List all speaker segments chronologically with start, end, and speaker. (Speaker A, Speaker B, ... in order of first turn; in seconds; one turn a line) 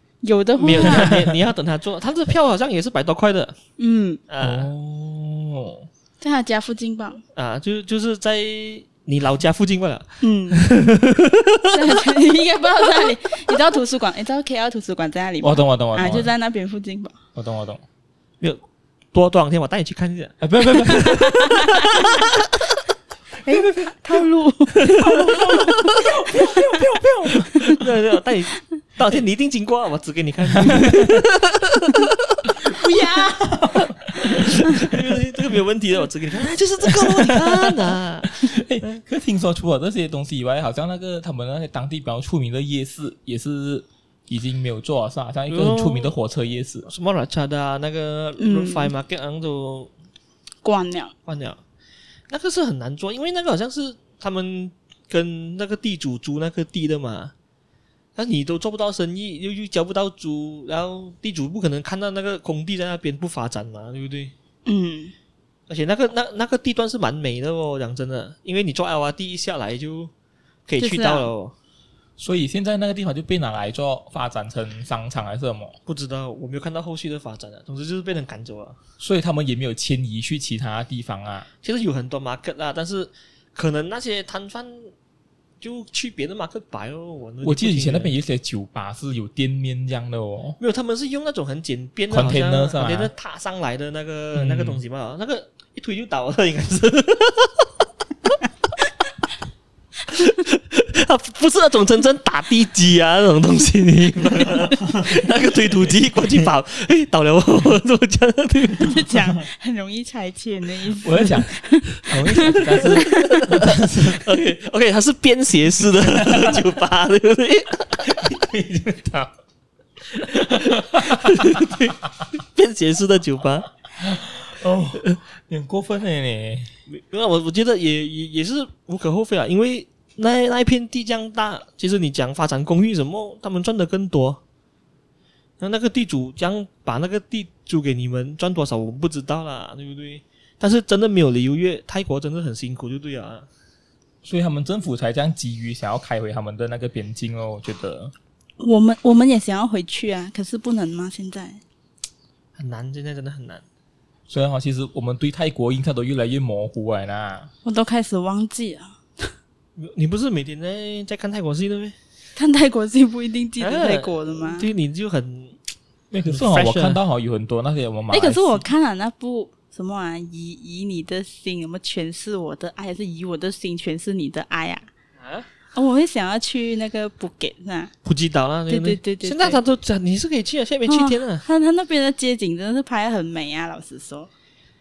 Speaker A: 0.2-1.2
Speaker B: 0.6-3.5
Speaker C: 0.6-1.4
Speaker A: 3.8-4.2
Speaker B: 4.3-4.7
Speaker C: 4.4-5.9
Speaker A: 6.2-7.2
Speaker B: 7.3-11.8
Speaker A: 10.2-10.6
Speaker A: 11.7-17.1
Speaker C: 15.4-16.3
Speaker C: 17.3-17.8
Speaker B: 19.1-22.3
Speaker C: 20.4-21.4
Speaker A: 20.8-22.3
Speaker A: 23.4-25.8
Speaker C: 23.5-23.9
Speaker B: 24.8-26.0
Speaker C: 25.0-27.8
Speaker B: 27.6-32.5
Speaker C: 30.5-31.2
Speaker C: 32.5-35.1
Speaker B: 34.2-38.4
Speaker C: 36.8-46.9
Speaker B: 45.5-46.1
Speaker B: 46.9-49.9
Speaker A: 48.4-48.9
Speaker A: 50.6-51.1
Speaker B: 51.2-51.6
Speaker B: 52.3-57.3
Speaker B: 58.1-64.3
Speaker A: 64.7-65.1
Speaker B: 65.7-70.1
Speaker B: 70.7-71.5
Speaker A: 70.8-71.3
Speaker C: 72.2-75.8
Speaker B: 75.9-78.8
Speaker C: 79.0-81.5
Speaker B: 81.6-84.9
Speaker B: 85.6-88.1
Speaker C: 87.4-90.6
Speaker B: 90.6-97.7
Speaker C: 92.1-93.1
Speaker C: 94.3-94.8
Speaker B: 100.1-109.0
Speaker C: 104.6-105.3
Speaker A: 108.8-113.4
Speaker C: 111.0-114.3
Speaker B: 112.5-118.1
Speaker C: 116.1-116.6
Speaker C: 118.0-119.3
Speaker B: 120.2-123.7
Speaker C: 120.3-121.7
Speaker C: 124.0-126.7
Speaker B: 126.9-134.4
Speaker B: 135.6-143.5
Speaker C: 144.2-148.1
Speaker A: 148.6-151.6
Speaker B: 152.6-153.6
Speaker C: 154.3-157.5
Speaker A: 157.6-159.3
Speaker B: 159.8-161.9
Speaker A: 162.3-164.7
Speaker B: 163.6-165.6
Speaker C: 166.1-168.7
Speaker B: 166.2-167.0
Speaker A: 168.1-174.9
Speaker B: 175.2-175.5
Speaker A: 175.7-177.9
Speaker B: 178.0-181.4
Speaker A: 178.7-179.6
Speaker A: 180.9-184.3